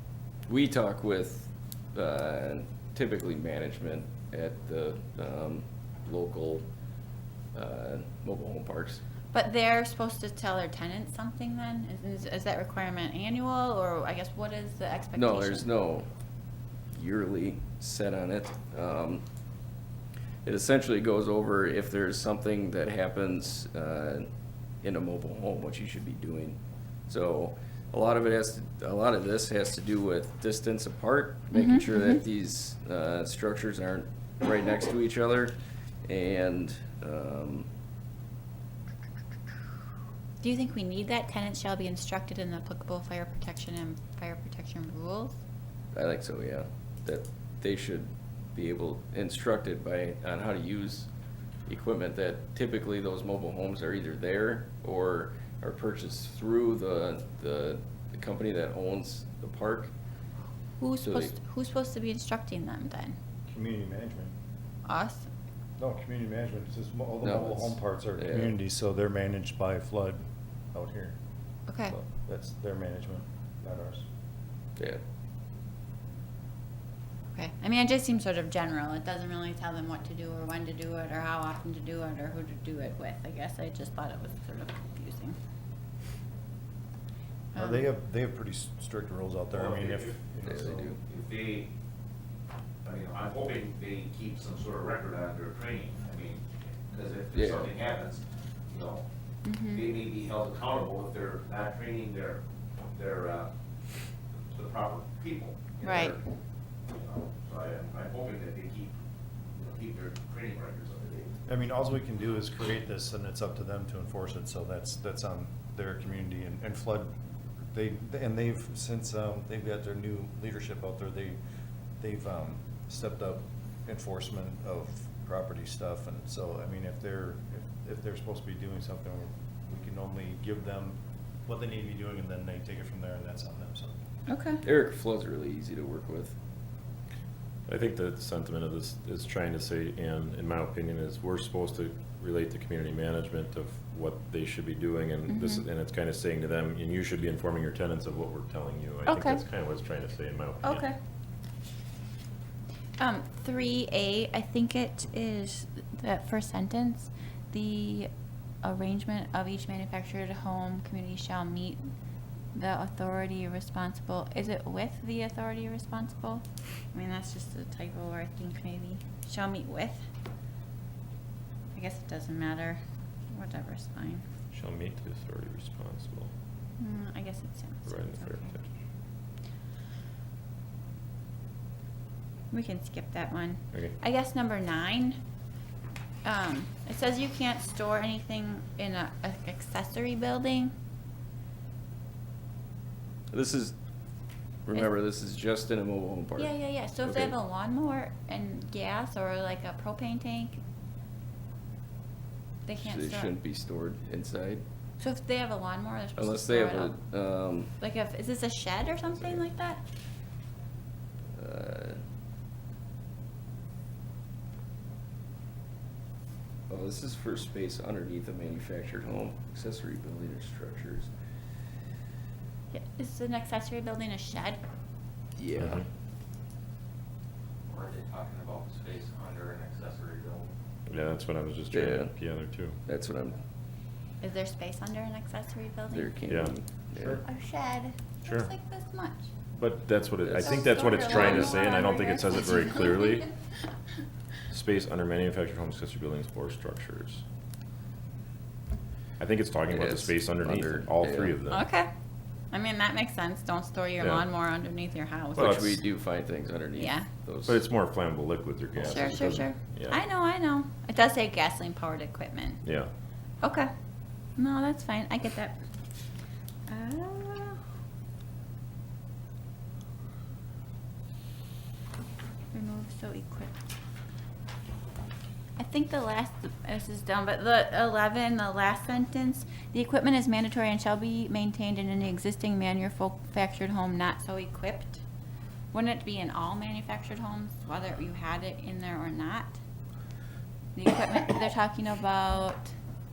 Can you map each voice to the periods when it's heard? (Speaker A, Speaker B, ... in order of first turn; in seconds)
Speaker A: 0.5-6.6, 7.5-9.0, 15.2-16.1, 16.9-19.2, 20.4-24.3, 24.8-37.7, 45.9-51.1, 51.7-59.9, 61.0-61.4, 67.2-68.5, 90.4-91.0, 97.3-97.7, 134.6-136.3, 193.3-193.7, 194.7-197.3, 202.8-204.6, 206.2-207.7, 211.3-212.0, 216.7-221.1, 225.4-225.8, 231.7-232.2, 232.9-233.4, 235.9-237.2, 240.2-241.6, 249.7-251.3, 255.3-257.6
Speaker B: 9.3-15.7, 31.5-32.2, 40.4-45.4, 60.8-63.2, 64.9-65.3, 71.7-71.9, 77.3-85.4, 87.5-87.9, 99.5-99.9, 105.8-106.2, 134.3-134.6, 145.3-145.7, 149.1-149.4, 150.6-151.0, 153.0-158.1, 158.6-161.9, 162.5-170.1, 171.7-172.8, 173.3-174.2, 176.8-178.5, 182.5-185.2, 186.2-190.7, 196.4-200.6, 202.7-203.3, 205.0-207.0, 207.8-209.8, 222.7-224.6, 234.2-236.1, 237.2-239.3, 240.4-243.2, 251.5-251.9, 252.5-255.5, 256.8-257.1, 258.8-262.6, 263.4-263.7, 264.4-265.6, 266.7-267.6, 272.5-273.6, 275.6-285.0, 285.7-289.6, 290.8-292.7
Speaker C: 63.5-64.3, 65.8-70.2, 70.7-71.2, 71.9-74.1, 87.5-90.9, 111.5-117.2, 117.7-121.4, 122.0-133.9, 237.0-237.2
Speaker D: 89.5-90.2, 91.0-91.7, 92.8-99.0, 99.7-102.4, 102.9-103.5, 104.5-106.2, 106.9-109.0, 109.6-111.4
Speaker E: 137.7-150.9, 174.5-176.3, 177.9-178.7, 225.6-225.9, 230.9-232.8, 236.3-236.6, 239.5-243.3, 244.5-247.2, 249.2-251.7, 255.4-255.8, 257.4-260.0, 262.6-262.9
Speaker F: 227.7-230.5